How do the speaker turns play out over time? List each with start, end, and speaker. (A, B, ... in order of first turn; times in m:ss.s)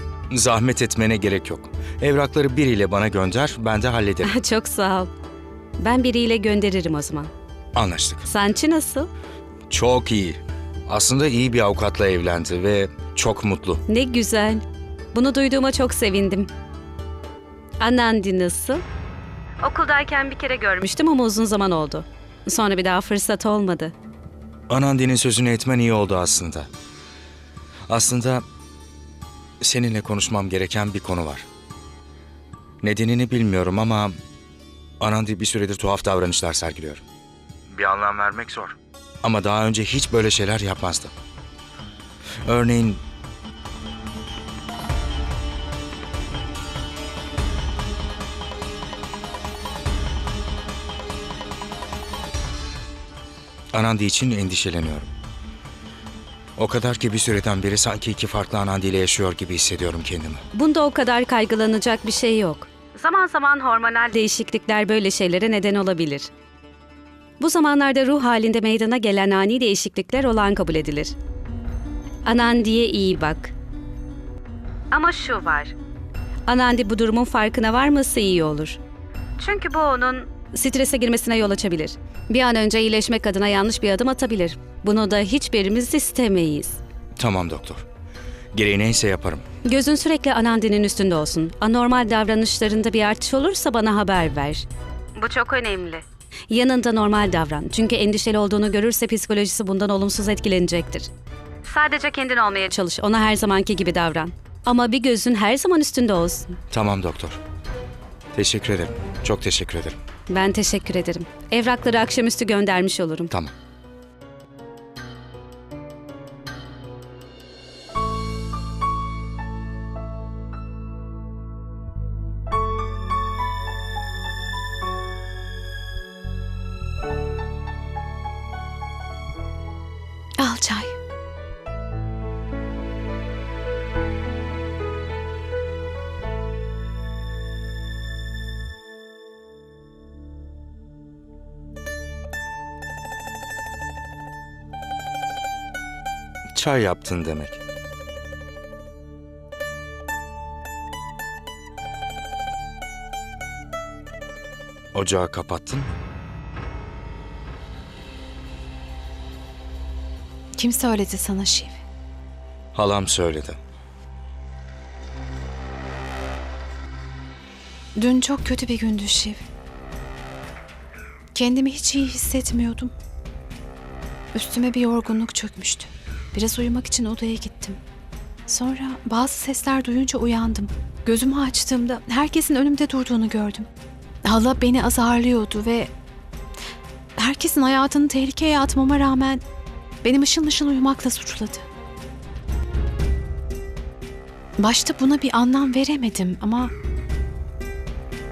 0:00.3-0:04.4 A
0:04.2-0:05.1 B
0:05.8-0:07.3 B
0:07.8-0:08.3 A
0:08.3-0:09.1 B
0:09.7-0:13.8 A
0:13.9-0:14.6 B
0:15.1-0:16.5 B
0:17.8-0:18.8 B
0:19.6-0:23.9 B
0:24.7-0:26.7 A
0:27.9-0:28.4 A
0:29.6-0:31.5 A
0:32.8-0:34.2 A
0:35.0-0:37.0 A
0:37.7-0:41.1 A
0:42.4-0:43.0 A
0:53.7-0:55.1 A
0:56.6-1:00.4 A
1:00.5-1:06.3 B
1:07.4-1:11.1 B
1:12.2-1:13.5 B
1:14.9-1:15.8 B
1:16.5-1:18.8 B
1:19.4-1:26.8 B
1:27.2-1:27.8 A
1:28.5-1:29.4 A
1:29.6-1:34.6 B
1:35.2-1:41.1 B
1:41.6-1:46.6 B
1:46.7-1:47.4 A
1:48.3-1:50.0 A
1:50.3-1:53.3 B
2:10.4-2:11.0 C
2:26.5-2:27.6 A
2:34.9-2:36.0 A
2:40.6-2:41.8 C
2:42.7-2:43.6 A
2:48.0-2:49.4 C
2:51.3-2:52.9 C
2:54.3-2:57.8 C
2:58.5-3:03.7 C
3:04.2-3:05.9 C
3:07.2-3:09.4 C
3:10.0-3:11.6 C
3:14.6-3:16.7 C